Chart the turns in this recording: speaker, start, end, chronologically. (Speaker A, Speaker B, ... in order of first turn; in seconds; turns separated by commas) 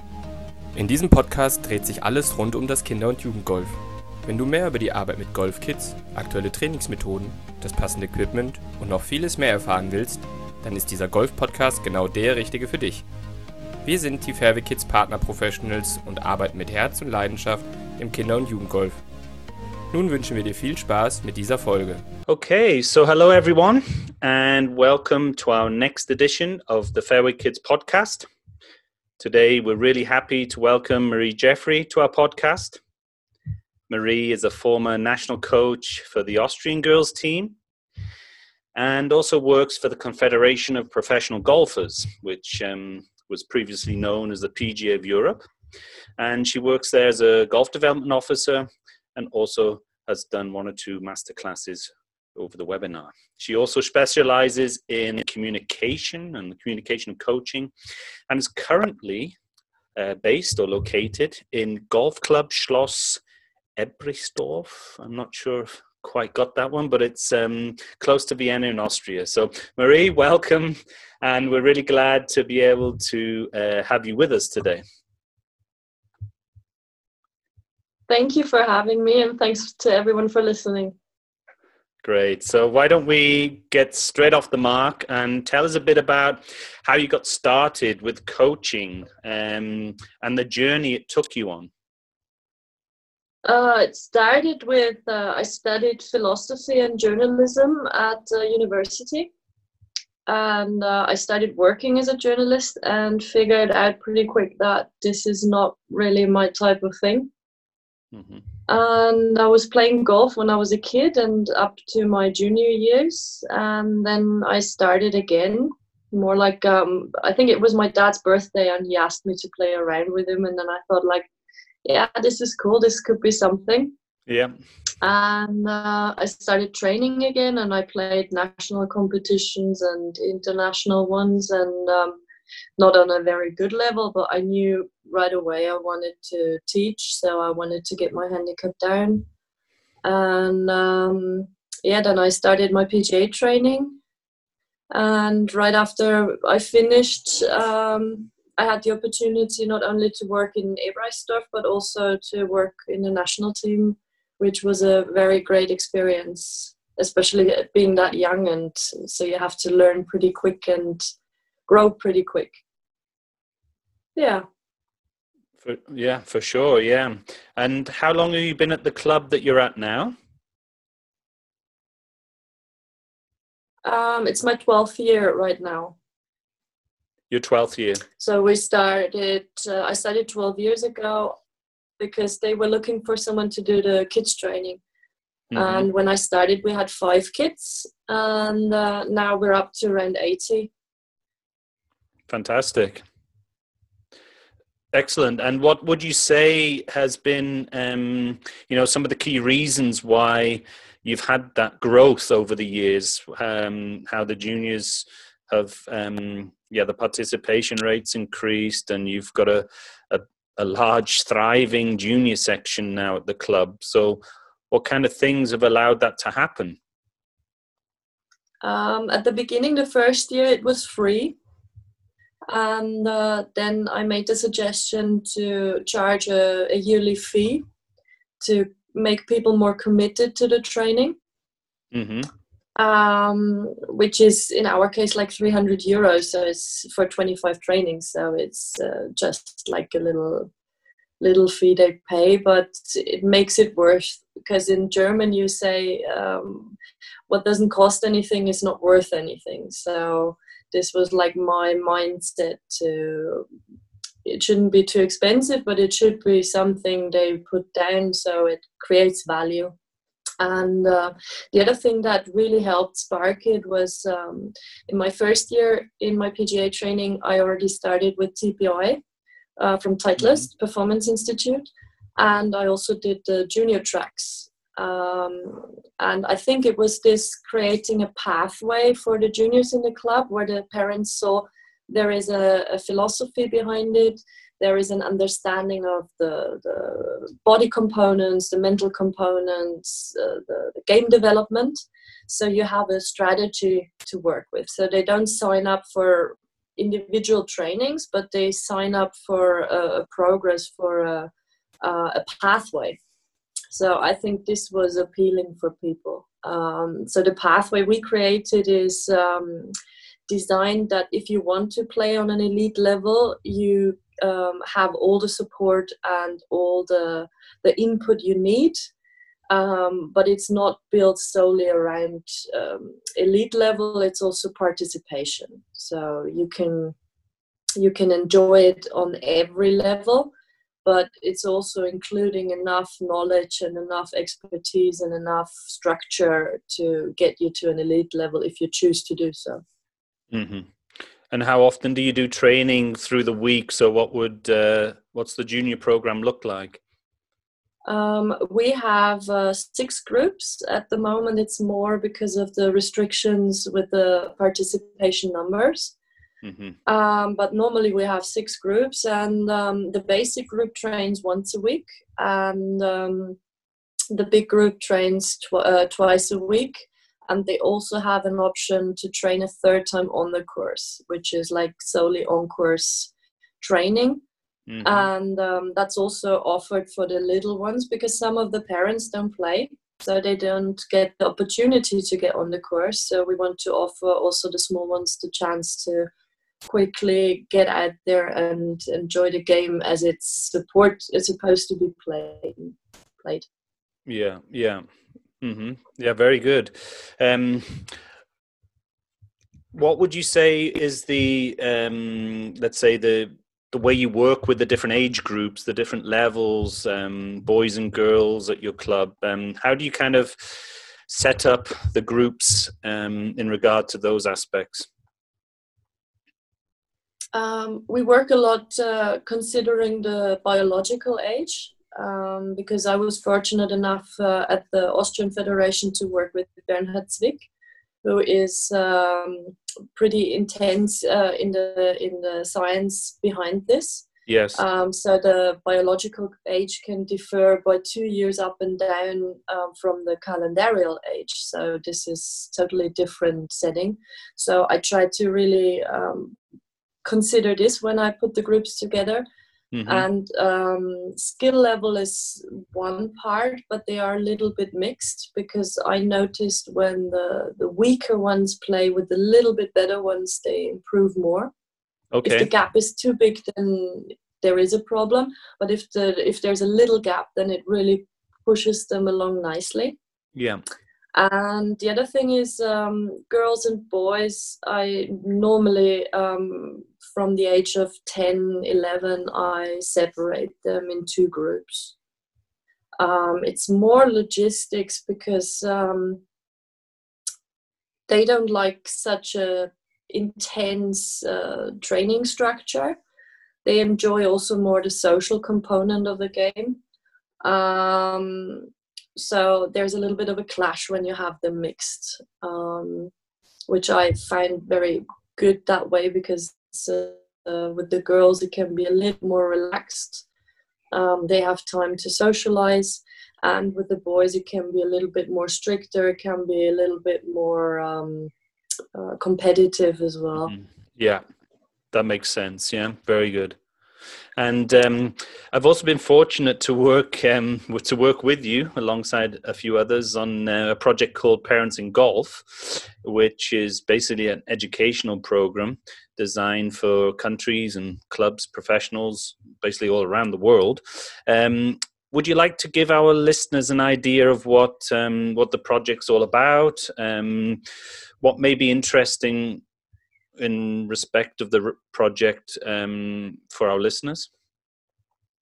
Speaker A: 0.7-13.1, Speaker A: 13.8-19.0, Speaker A: 19.9-22.0, Speaker B: 22.3-28.3, Speaker B: 29.2-32.8, Speaker B: 33.9-37.5, Speaker B: 38.7-45.5, Speaker B: 46.2-57.7, Speaker B: 58.3-59.4, Speaker B: 60.0-63.2, Speaker B: 63.8-74.8, Speaker C: 78.1-80.9, Speaker B: 82.0-91.7, Speaker C: 93.4-99.3, Speaker C: 100.3-107.3, Speaker B: 108.1-108.4, Speaker C: 108.7-121.3, Speaker C: 121.8-123.9, Speaker B: 124.3-124.5, Speaker C: 125.0-132.2, Speaker C: 132.8-139.2, Speaker C: 140.0-143.9, Speaker C: 144.9-161.1, Speaker C: 161.7-162.6, Speaker C: 164.2-164.4, Speaker B: 165.6-170.1, Speaker C: 173.8-175.9, Speaker B: 177.3-178.0, Speaker C: 178.2-181.3, Speaker C: 182.0-184.8, Speaker B: 185.5-185.9, Speaker C: 185.5-190.7, Speaker B: 192.3-193.0, Speaker B: 194.9-216.8, Speaker C: 218.6-221.3, Speaker C: 222.5-227.6, Speaker C: 228.4-231.2, Speaker B: 231.9-232.3, Speaker C: 232.8-240.5, Speaker C: 241.2-246.7, Speaker C: 247.3-253.4, Speaker C: 254.2-259.7, Speaker C: 260.4-269.0, Speaker C: 269.6-301.3, Speaker C: 301.8-303.0, Speaker C: 303.7-309.7, Speaker C: 310.3-318.8, Speaker C: 319.5-326.9, Speaker C: 327.8-330.3, Speaker C: 330.8-339.6, Speaker B: 340.3-340.7, Speaker B: 341.3-346.8, Speaker C: 347.9-355.9, Speaker B: 356.4-356.8, Speaker C: 356.9-363.4, Speaker C: 364.1-374.2, Speaker B: 374.7-375.1, Speaker C: 374.8-386.1, Speaker C: 386.6-393.4, Speaker B: 394.1-394.8, Speaker B: 395.4-397.9, Speaker B: 399.7-414.9, Speaker C: 417.3-427.5, Speaker C: 428.0-446.4, Speaker B: 434.3-434.6, Speaker C: 447.0-449.2, Speaker B: 449.7-450.1, Speaker C: 449.8-461.5, Speaker B: 462.1-462.5, Speaker C: 462.2-470.0, Speaker B: 470.3-470.6, Speaker C: 471.1-481.9, Speaker C: 483.0-486.2, Speaker C: 488.1-493.0, Speaker C: 493.6-496.8, Speaker C: 497.4-503.1, Speaker C: 503.7-510.2, Speaker C: 510.9-518.3, Speaker C: 518.9-520.5, Speaker B: 520.4-521.2, Speaker B: 521.9-523.6, Speaker B: 524.4-547.6, Speaker B: 548.2-549.6, Speaker B: 550.4-554.3